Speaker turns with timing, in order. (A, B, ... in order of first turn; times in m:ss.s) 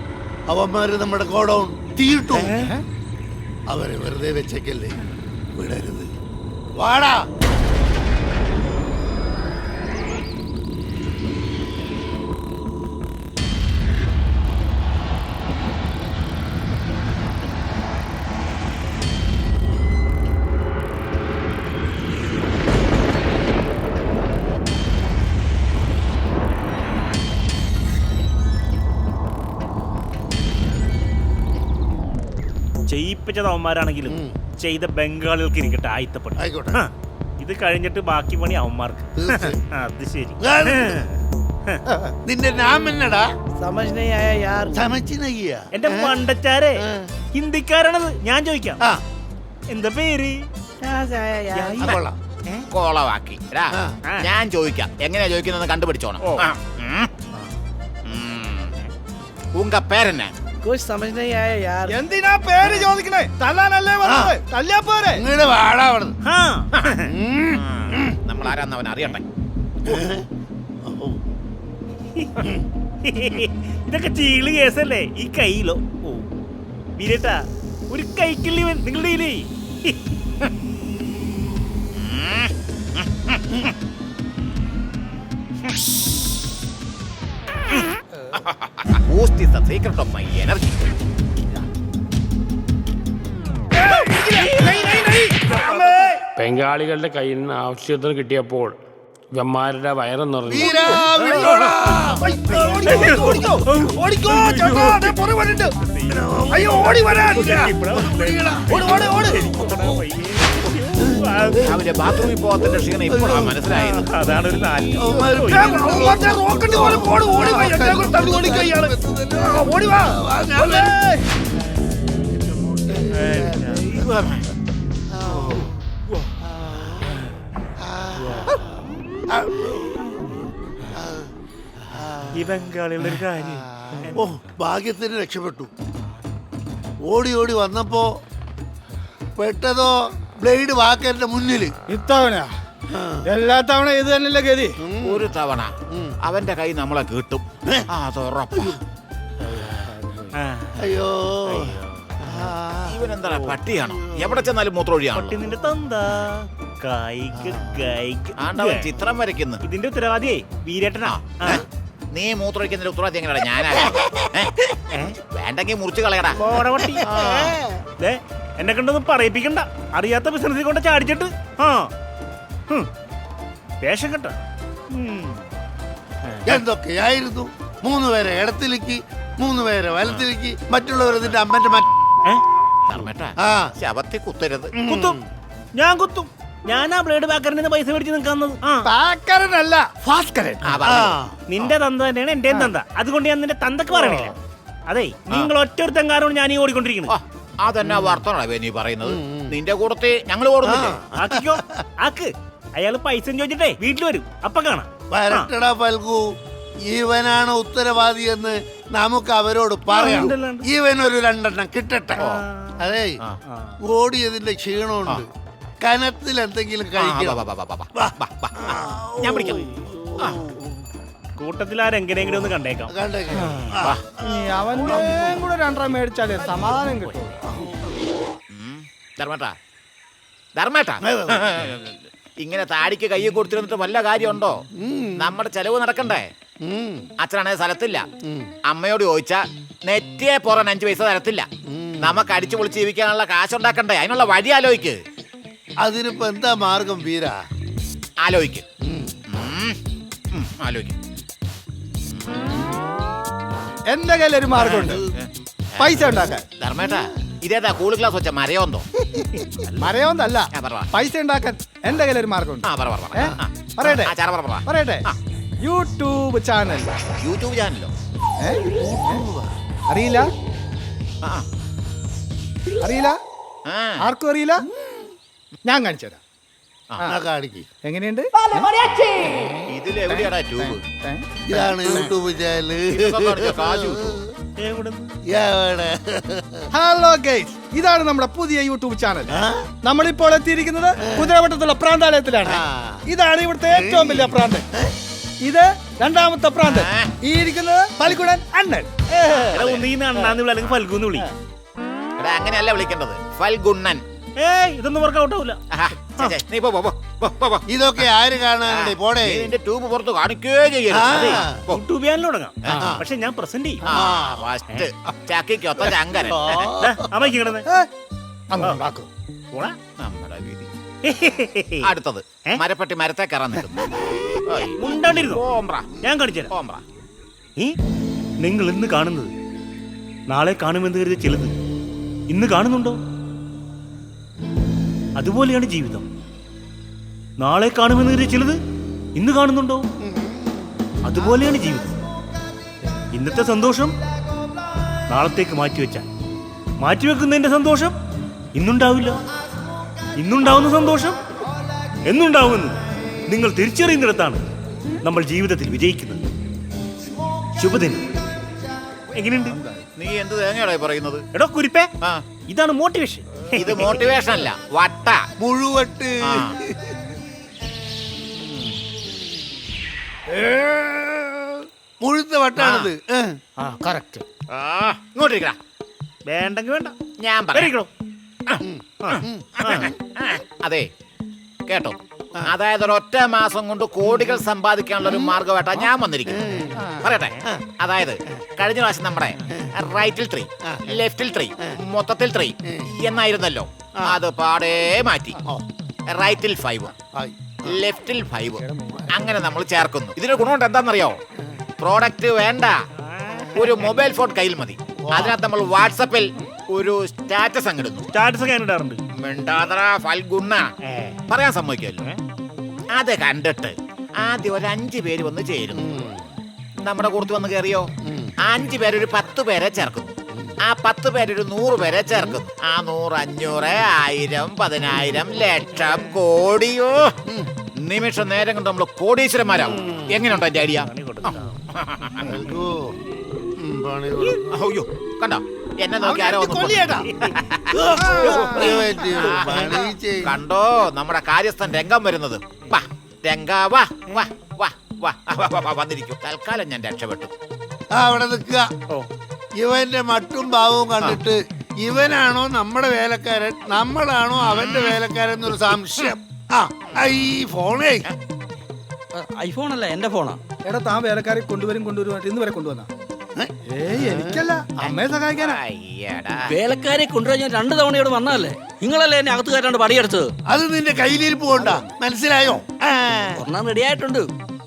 0:00.5-0:02.6 A
0:02.3-0:02.7 B
0:02.5-0:02.8 C
0:03.7-0:05.0 A
0:05.6-0:06.1 A
0:06.8-0:07.2 A
0:32.9-0:41.8 B
0:34.1-0:34.4 A
0:36.4-0:36.8 A
0:39.2-0:39.6 A
0:40.4-0:41.0 A
0:41.9-0:42.2 C
0:42.2-0:43.3 A
0:43.6-0:44.7 D
0:44.7-0:46.2 A
0:45.7-0:46.8 B
0:46.8-0:47.1 A
0:47.4-0:48.8 B
0:49.7-0:50.5 B
0:50.8-0:51.8 D
0:51.5-0:51.9 B
0:51.8-0:52.2 A
0:52.7-0:57.1 E
0:53.7-0:54.0 A
0:56.2-0:56.5 B
0:58.1-0:58.7 E
0:59.6-1:00.3 E
1:00.6-1:01.9 D
1:01.9-1:05.2 C
1:04.0-1:04.3 A
1:05.2-1:06.2 A
1:06.3-1:07.1 B
1:07.1-1:08.1 A
1:07.5-1:09.2 E
1:09.8-1:10.3 A
1:10.8-1:11.2 A
1:12.2-1:12.5 B
1:13.0-1:16.3 B
1:17.0-1:20.0 B
1:22.0-1:23.7 E
1:28.3-1:30.8 E
1:33.8-1:36.2 C
1:36.4-1:38.8 F
1:39.3-1:40.9 F
1:40.5-1:43.5 A
1:40.7-1:41.4 C
1:41.3-1:42.0 B
1:42.2-1:45.7 C
1:42.8-1:45.2 B
1:45.8-1:46.4 B
1:46.1-1:50.0 A
1:46.5-1:47.6 C
1:47.1-1:51.8 B
1:48.8-1:49.4 C
1:51.6-1:54.1 E
1:53.1-1:53.8 A
1:53.8-1:56.3 B
1:55.0-2:01.0 A
1:55.6-2:00.1 C
2:00.6-2:01.1 C
2:02.8-2:04.4 A
2:03.1-2:04.1 B
2:05.1-2:05.7 A
2:05.5-2:06.2 B
2:06.5-2:07.1 A
2:07.8-2:08.6 A
2:08.2-2:08.6 B
2:09.3-2:10.1 A
2:10.9-2:11.3 A
2:12.0-2:12.2 A
2:12.3-2:14.2 B
2:14.0-2:15.7 A
2:17.1-2:18.2 A
2:19.4-2:21.8 A
2:21.9-2:22.5 C
2:22.9-2:23.2 A
2:23.3-2:24.8 C
2:24.8-2:25.3 A
2:25.0-2:25.7 E
2:25.9-2:26.2 A
2:26.2-2:28.8 E
2:29.5-2:29.8 B
2:30.3-2:30.8 B
2:30.8-2:33.0 A
2:31.5-2:32.5 B
2:32.9-2:35.4 E
2:33.9-2:34.4 A
2:35.2-2:38.9 B
2:37.4-2:37.7 A
2:38.4-2:39.6 E
2:39.6-2:41.6 B
2:41.0-2:46.4 E
2:44.9-2:45.2 B
2:46.4-2:51.9 B
2:47.0-2:47.8 A
2:53.8-2:54.4 B
2:54.9-2:55.5 B
2:56.2-2:56.6 B
2:56.5-3:01.9 A
3:02.9-3:04.7 E
3:03.4-3:03.7 A
3:04.8-3:05.2 A
3:04.9-3:05.2 B
3:05.8-3:08.9 B
3:08.8-3:10.8 C
3:10.6-3:11.7 E
3:10.8-3:11.4 A
3:11.5-3:17.1 B
3:13.9-3:14.3 A
3:17.1-3:21.0 E
3:17.8-3:18.2 A
3:19.0-3:19.6 A
3:20.6-3:21.8 A
3:21.2-3:25.5 B
3:25.1-3:26.3 A
3:26.9-3:32.3 A
3:29.9-3:30.7 B
3:32.2-3:32.8 B
3:32.8-3:33.2 A
3:33.5-3:33.8 B
3:33.8-3:35.3 A
3:35.8-3:37.4 A
3:37.0-3:39.7 E
3:38.0-3:40.5 A
3:41.4-3:43.6 B
3:42.9-3:44.0 A
3:44.2-3:47.3 C
3:44.8-3:45.4 A
3:47.5-3:47.8 A
3:48.5-3:49.6 E
3:50.6-3:54.6 E
3:51.0-3:51.6 A
3:54.8-3:55.4 A
3:55.2-3:56.3 E
3:56.6-3:57.1 A
3:57.2-3:58.1 E
3:58.2-3:58.5 A
3:58.7-4:01.5 E
4:01.7-4:02.2 A
4:02.0-4:05.0 E
4:05.8-4:07.4 A
4:08.2-4:08.6 E
4:08.8-4:09.2 A
4:09.3-4:09.8 E
4:10.3-4:11.0 E
4:12.1-4:12.6 E
4:13.9-4:15.0 C
4:14.6-4:18.9 E
4:15.8-4:16.4 C
4:19.4-4:25.0 C
4:20.5-4:20.9 E
4:22.6-4:25.2 E
4:25.6-4:26.9 C
4:27.2-4:27.9 E
4:28.4-4:29.2 C
4:28.7-4:29.5 A
4:29.9-4:30.3 C
4:32.8-4:33.2 C
4:33.7-4:34.0 E
4:34.0-4:34.6 C
4:35.6-4:36.2 C
4:37.1-4:37.7 A
4:37.8-4:38.7 C
4:39.7-4:40.8 E
4:40.1-4:42.1 C
4:41.5-4:44.2 A
4:43.0-4:44.2 E
4:44.6-4:45.1 B
4:45.3-4:46.6 A
4:46.7-4:54.6 C
4:49.3-4:49.7 A
4:51.0-4:51.3 A
4:52.4-4:53.0 A
4:53.7-4:54.9 A
4:55.5-4:58.9 C
4:56.6-4:57.1 E
4:59.1-5:01.3 B
4:59.2-4:59.9 E
5:02.2-5:04.0 E
5:04.4-5:05.6 B
5:05.7-5:07.6 E
5:07.7-5:09.5 A
5:08.7-5:11.8 E
5:10.9-5:11.6 A
5:11.1-5:13.8 B
5:12.7-5:13.0 A
5:13.9-5:16.7 E
5:13.9-5:14.5 A
5:16.2-5:17.0 A
5:16.6-5:17.7 B
5:18.5-5:19.1 C
5:20.0-5:20.7 E
5:21.1-5:21.9 B
5:21.8-5:23.9 E
5:24.5-5:26.8 E
5:24.6-5:25.4 B
5:26.0-5:26.5 B
5:28.4-5:29.3 B
5:30.3-5:31.6 B
5:32.3-5:33.0 B
5:35.2-5:36.1 B
5:37.4-5:38.6 B
5:39.2-5:39.9 B
5:40.0-5:40.6 A
5:41.0-5:41.9 B
5:43.1-5:44.0 B
5:45.1-5:46.1 B
5:46.8-5:48.0 B
5:48.6-5:49.2 B
5:50.2-5:51.2 B
5:52.1-5:54.4 B
5:55.0-5:56.2 B
5:57.6-5:58.2 B
5:59.1-5:59.7 B
6:00.0-6:01.2 E
6:01.4-6:01.9 B
6:02.5-6:04.0 B
6:03.6-6:05.2 E
6:05.4-6:06.9 A
6:06.3-6:06.6 E
6:08.3-6:08.7 E
6:10.3-6:13.4 A
6:12.6-6:12.9 E
6:13.6-6:14.2 B
6:14.5-6:15.6 E
6:16.3-6:17.0 B
6:17.2-6:17.7 E
6:17.6-6:17.9 B
6:18.5-6:20.9 E
6:18.6-6:19.6 A
6:19.0-6:19.9 B
6:21.7-6:35.4 E
6:24.0-6:24.4 A
6:25.0-6:26.9 A
6:26.8-6:27.5 B
6:36.1-6:36.9 E
6:37.0-6:37.8 A
6:37.7-6:41.2 E
6:38.6-6:39.1 C
6:41.8-6:42.8 E
6:43.0-6:44.1 B
6:43.6-6:48.1 E
6:45.0-6:45.4 A
6:48.1-6:49.0 B
6:49.2-6:50.7 E
6:50.8-6:51.2 B
6:51.3-6:52.1 E
6:52.9-6:55.9 E
6:55.8-6:56.3 A
6:56.8-6:57.9 E
6:58.0-6:58.3 A
6:58.4-7:07.1 E
7:07.8-7:12.4 E
7:09.7-7:10.2 A
7:10.7-7:11.6 B
7:12.2-7:13.0 A
7:13.6-7:14.4 A
7:14.5-7:27.3 E
7:16.0-7:17.1 C
7:17.0-7:17.4 B
7:17.7-7:20.4 A
7:18.0-7:18.8 C
7:19.0-7:19.4 B
7:27.9-7:28.7 A
7:29.6-7:38.1 A
7:34.4-7:35.0 E
7:36.9-7:37.2 E
7:39.1-7:40.4 G
7:40.7-7:42.9 C
7:43.4-7:44.5 A
7:43.7-7:45.6 C
7:44.8-7:46.5 E
7:46.5-7:50.3 G
7:50.5-7:53.5 A
7:51.6-7:51.9 C
7:53.4-7:54.3 G